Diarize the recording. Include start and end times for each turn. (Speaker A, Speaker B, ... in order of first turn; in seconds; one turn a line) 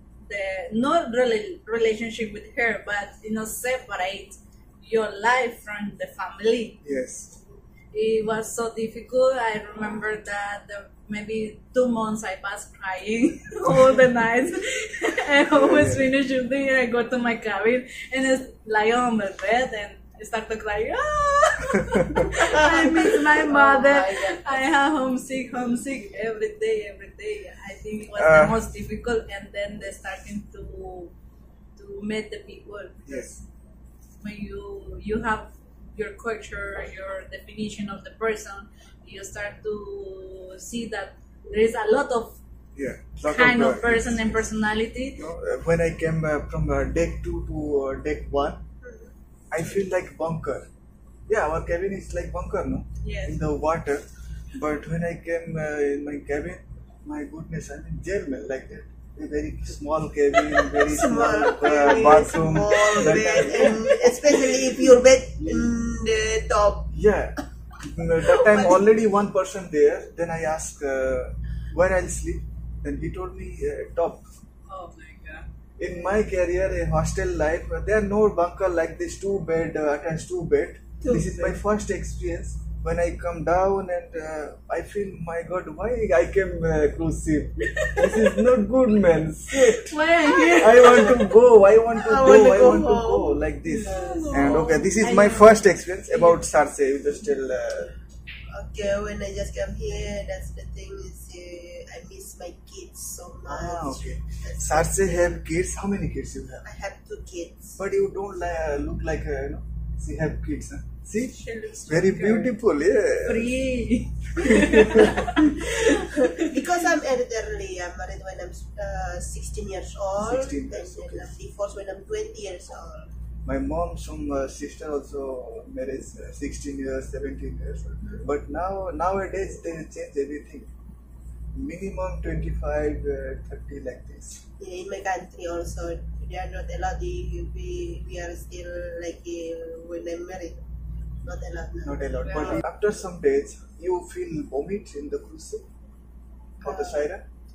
Speaker A: 0.3-6.8
Speaker B: 6.8-7.4
Speaker A: 7.9-31.1
Speaker B: 15.5-16.1
Speaker C: 22.4-24.6
Speaker B: 28.1-28.6
Speaker A: 31.8-33.4
Speaker B: 33.0-33.3
Speaker A: 34.2-42.4
Speaker B: 42.8-44.4
Speaker A: 43.2-45.2
Speaker B: 45.2-48.6
Speaker C: 48.8-49.1
Speaker B: 49.5-50.6
Speaker B: 51.3-64.0
Speaker A: 53.0-53.4
Speaker C: 60.5-66.9
Speaker A: 61.7-63.8
Speaker B: 66.9-74.2
Speaker A: 74.7-75.4
Speaker B: 75.8-97.9
Speaker C: 81.0-81.6
Speaker A: 89.6-91.2
Speaker C: 90.3-91.1
Speaker C: 91.9-94.8
Speaker A: 93.7-96.3
Speaker C: 98.5-105.3
Speaker B: 103.5-106.6
Speaker C: 106.6-107.8
Speaker B: 107.8-113.6
Speaker A: 111.3-112.5
Speaker A: 113.2-116.6
Speaker B: 114.3-115.2
Speaker C: 115.4-123.1
Speaker B: 120.2-121.3
Speaker B: 123.4-130.7
Speaker C: 128.0-128.2
Speaker B: 131.5-134.4
Speaker C: 134.6-140.6
Speaker C: 141.2-142.6
Speaker B: 141.8-145.6
Speaker A: 142.2-142.6
Speaker B: 146.6-147.2
Speaker C: 146.6-147.0